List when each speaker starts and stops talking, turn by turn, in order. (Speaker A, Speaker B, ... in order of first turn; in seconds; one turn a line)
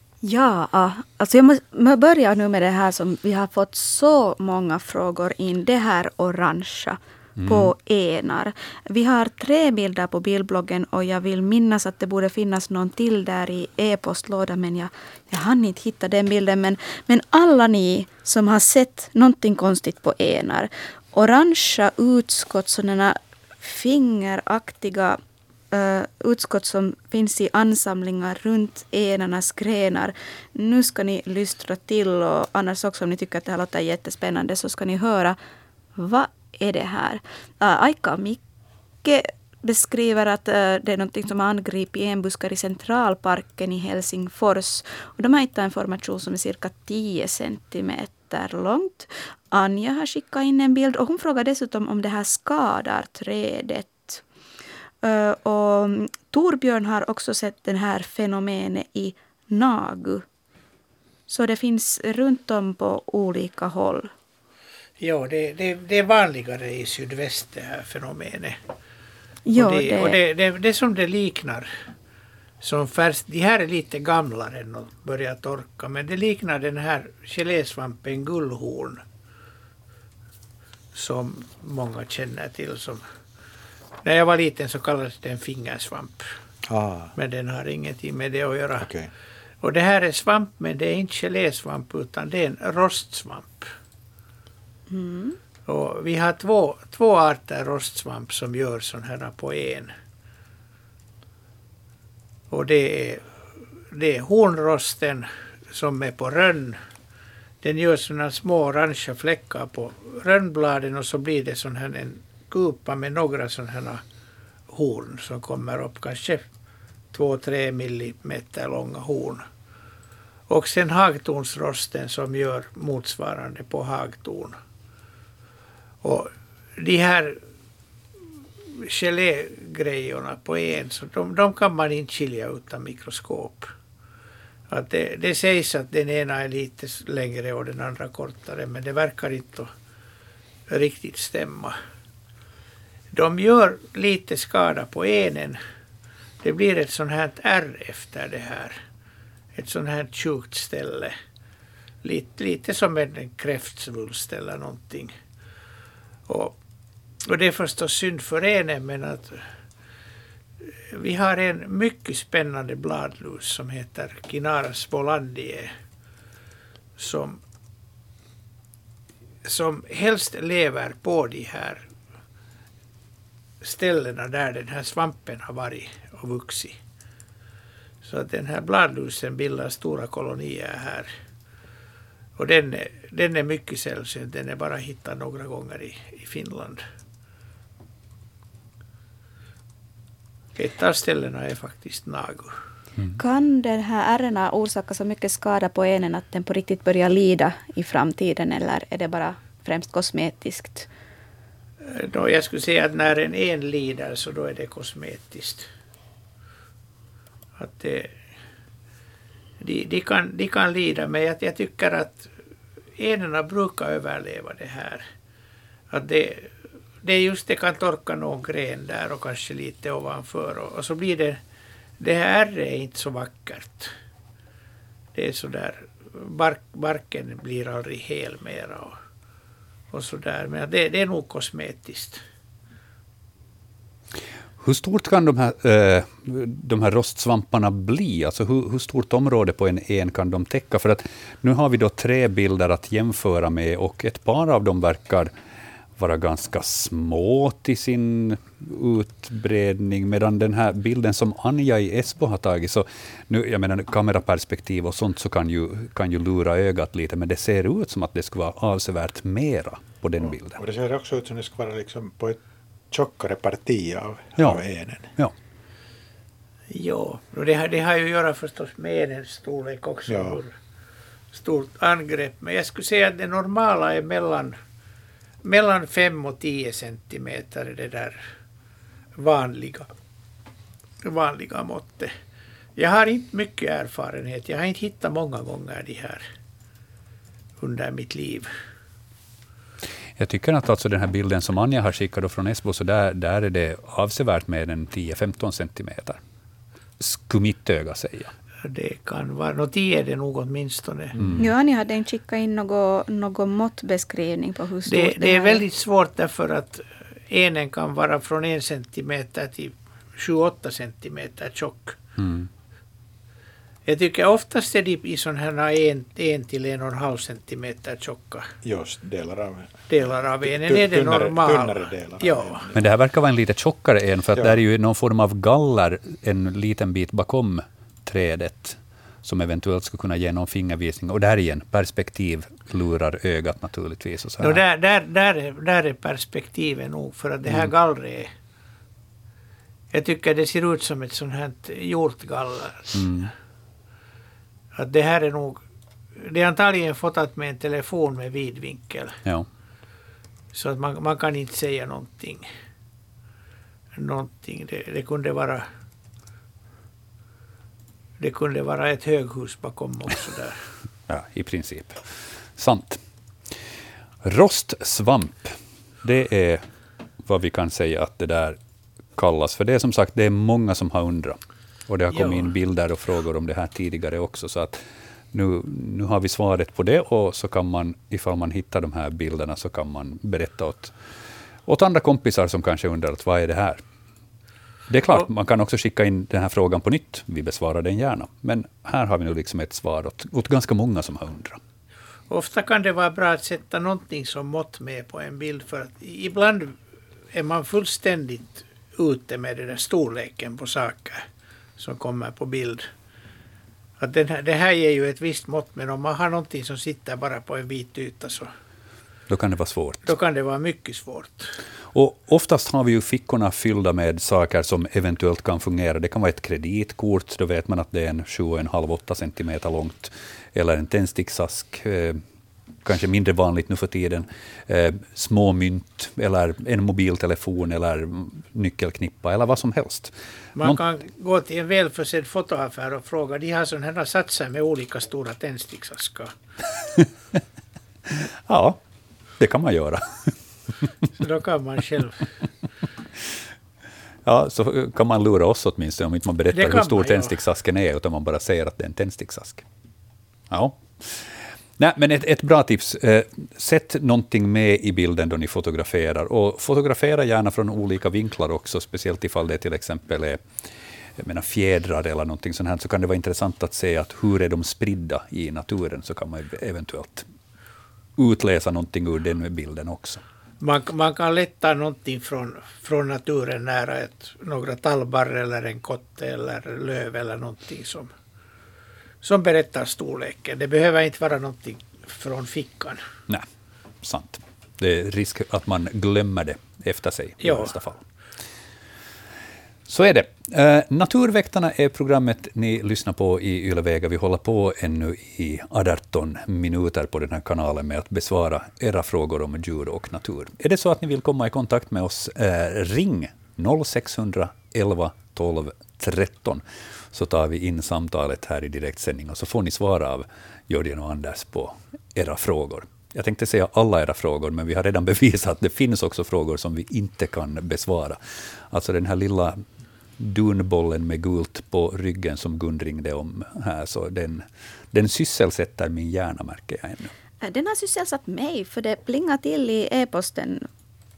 Speaker A: 0.2-25.2
Speaker B: 7.4-7.7
Speaker A: 25.7-35.4
Speaker A: 36.0-38.4
Speaker A: 39.0-54.2
Speaker A: 55.0-60.2
Speaker A: 61.3-64.1
Speaker C: 65.0-68.6
Speaker A: 69.5-70.2
Speaker C: 69.5-71.7
Speaker C: 72.6-79.0
Speaker C: 80.9-83.0
Speaker C: 84.0-86.3
Speaker D: 86.7-87.1
Speaker C: 87.2-88.9
Speaker D: 88.8-89.1
Speaker C: 89.6-93.7
Speaker A: 94.9-95.4
Speaker C: 95.7-99.9
Speaker C: 102.5-103.3
Speaker C: 103.9-106.8
Speaker C: 107.6-114.0
Speaker C: 114.7-116.4
Speaker C: 117.1-119.4
Speaker C: 120.5-124.6
Speaker C: 126.0-127.4
Speaker C: 128.8-133.7
Speaker C: 134.7-139.7
Speaker C: 140.7-141.7
Speaker C: 143.1-145.6
Speaker C: 146.4-148.8
Speaker C: 149.6-151.1
Speaker C: 152.0-155.1
Speaker C: 156.3-156.6
Speaker C: 157.2-159.4
Speaker C: 160.9-165.7
Speaker C: 167.0-167.4
Speaker C: 169.4-171.8
Speaker C: 173.6-176.8
Speaker C: 178.0-181.1
Speaker C: 182.4-186.8
Speaker C: 190.6-192.5
Speaker A: 193.2-200.9
Speaker C: 201.8-205.7
Speaker C: 207.6-208.2
Speaker C: 209.6-212.3
Speaker C: 213.0-215.0
Speaker C: 215.9-221.4
Speaker C: 222.0-223.9
Speaker C: 225.1-228.9
Speaker C: 229.9-232.2
Speaker B: 234.6-245.3
Speaker B: 246.0-260.6
Speaker D: 260.2-262.4
Speaker D: 262.9-265.1
Speaker C: 266.7-270.5
Speaker D: 270.1-270.4
Speaker C: 271.3-274.5
Speaker C: 275.4-278.2
Speaker C: 279.2-279.9
Speaker C: 281.0-282.1
Speaker C: 282.8-286.2
Speaker C: 287.6-288.5
Speaker B: 290.2-296.2
Speaker B: 297.0-298.3
Speaker C: 298.6-301.1
Speaker D: 301.2-301.4
Speaker B: 301.2-301.5
Speaker A: 301.4-305.6
Speaker C: 304.9-312.0
Speaker B: 312.2-312.5
Speaker C: 313.9-318.5
Speaker D: 318.6-322.7
Speaker C: 319.9-322.6
Speaker B: 322.7-334.6
Speaker D: 324.3-324.6
Speaker C: 334.4-338.3
Speaker C: 339.9-343.3
Speaker B: 342.9-343.3
Speaker C: 344.7-345.6
Speaker C: 346.2-349.1
Speaker C: 350.5-352.5
Speaker C: 353.9-355.6
Speaker C: 358.2-360.6
Speaker B: 361.1-363.0
Speaker B: 364.2-366.6
Speaker B: 367.2-368.6
Speaker B: 369.2-374.8
Speaker C: 372.1-372.5
Speaker B: 375.3-380.9
Speaker B: 381.7-383.8
Speaker B: 384.9-391.6
Speaker C: 392.3-396.8
Speaker C: 397.3-401.2
Speaker C: 401.8-402.8
Speaker C: 404.0-408.5
Speaker B: 409.3-410.1
Speaker C: 410.0-411.6
Speaker B: 411.9-422.2
Speaker B: 422.8-430.8
Speaker C: 430.6-436.3
Speaker B: 438.1-438.8
Speaker B: 439.4-440.3
Speaker C: 441.2-442.2
Speaker B: 444.2-449.6
Speaker C: 446.5-447.4
Speaker B: 450.5-460.4
Speaker B: 461.2-467.2
Speaker B: 468.2-470.2
Speaker C: 470.6-478.1
Speaker C: 479.2-483.0
Speaker B: 484.0-488.0
Speaker C: 487.4-487.7
Speaker B: 489.9-518.2
Speaker B: 518.7-519.6
Speaker B: 520.2-527.1
Speaker A: 527.4-530.7